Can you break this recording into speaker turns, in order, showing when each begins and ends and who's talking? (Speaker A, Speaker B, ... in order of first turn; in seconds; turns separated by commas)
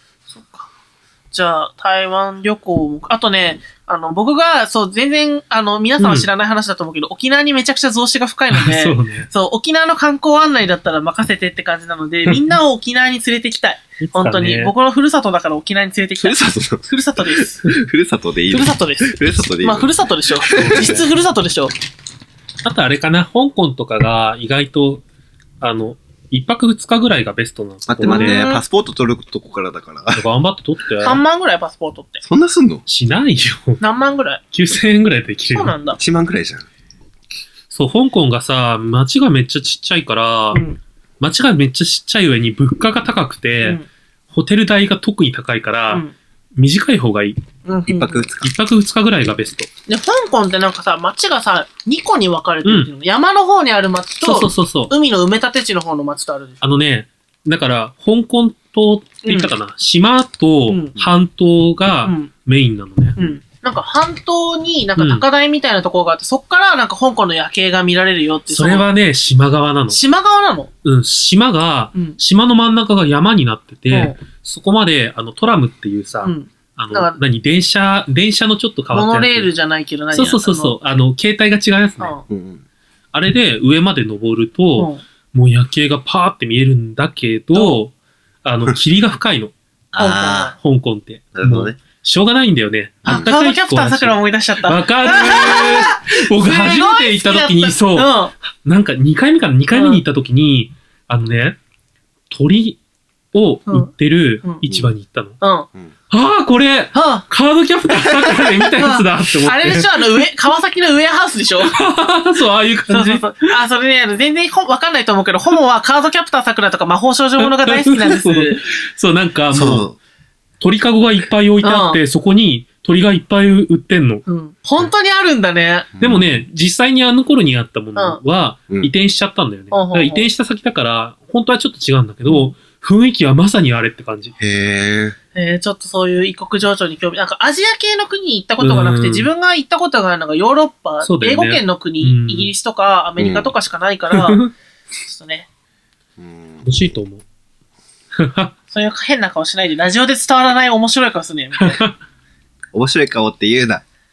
Speaker A: 0.3-0.7, Speaker A: 1.3-17.6, Speaker B: 6.0-6.3, Speaker B: 8.5-9.3, Speaker B: 14.0-14.7, Speaker C: 16.2-16.9, Speaker C: 17.6-21.0, Speaker A: 18.5-21.7, Speaker B: 20.6-21.1, Speaker B: 22.6-25.0, Speaker B: 25.6-28.4, Speaker C: 27.9-30.2, Speaker A: 28.1-28.6, Speaker B: 30.1-31.2, Speaker A: 31.0-32.2, Speaker C: 32.2-32.8, Speaker B: 32.9-33.8, Speaker A: 33.8-34.4, Speaker B: 34.5-35.7, Speaker A: 35.5-36.0, Speaker C: 36.0-36.7, Speaker B: 37.7-40.6, Speaker A: 40.5-40.8, Speaker B: 41.2-43.8, Speaker B: 44.3-46.0, Speaker B: 46.6-47.4, Speaker A: 47.6-48.3, Speaker C: 47.9-48.5, Speaker B: 48.4-49.7, Speaker A: 49.9-56.6, Speaker B: 52.6-52.9, Speaker B: 54.2-54.9, Speaker B: 56.6-63.2, Speaker A: 59.2-59.5, Speaker A: 60.7-61.0, Speaker A: 62.0-62.3, Speaker A: 63.2-68.9, Speaker B: 65.0-65.2, Speaker B: 68.5-70.0, Speaker A: 69.9-70.7, Speaker B: 70.8-79.5, Speaker A: 73.9-74.2, Speaker A: 76.2-77.2, Speaker A: 78.9-80.8, Speaker B: 80.1-82.2, Speaker C: 82.3-82.6, Speaker B: 83.1-87.9, Speaker A: 84.8-85.0, Speaker B: 88.5-89.5, Speaker A: 90.0-90.5, Speaker C: 90.0-90.4, Speaker B: 90.6-98.1, Speaker C: 91.4-91.7, Speaker A: 93.1-98.3, Speaker B: 98.6-101.6, Speaker A: 99.7-100.0, Speaker B: 102.3-102.8, Speaker B: 103.3-105.4, Speaker A: 105.4-105.7, Speaker B: 106.1-110.1, Speaker A: 106.9-107.2, Speaker A: 108.8-111.8, Speaker B: 111.6-113.5, Speaker A: 112.9-118.6, Speaker B: 117.4-119.9, Speaker C: 119.5-120.0, Speaker B: 120.6-124.2, Speaker A: 121.6-122.0, Speaker A: 124.3-125.9, Speaker C: 126.0-126.4, Speaker B: 126.0-134.3, Speaker A: 129.7-130.3, Speaker C: 134.4-135.2, Speaker A: 135.3-144.4, Speaker B: 138.6-139.3, Speaker B: 141.0-142.5, Speaker C: 143.2-143.5, Speaker B: 144.1-144.5, Speaker A: 145.1-145.5, Speaker C: 146.2-146.7, Speaker B: 146.6-147.2, Speaker B: 148.2-148.5, Speaker A: 148.7-151.8, Speaker B: 151.6-151.9, Speaker C: 152.7-153.8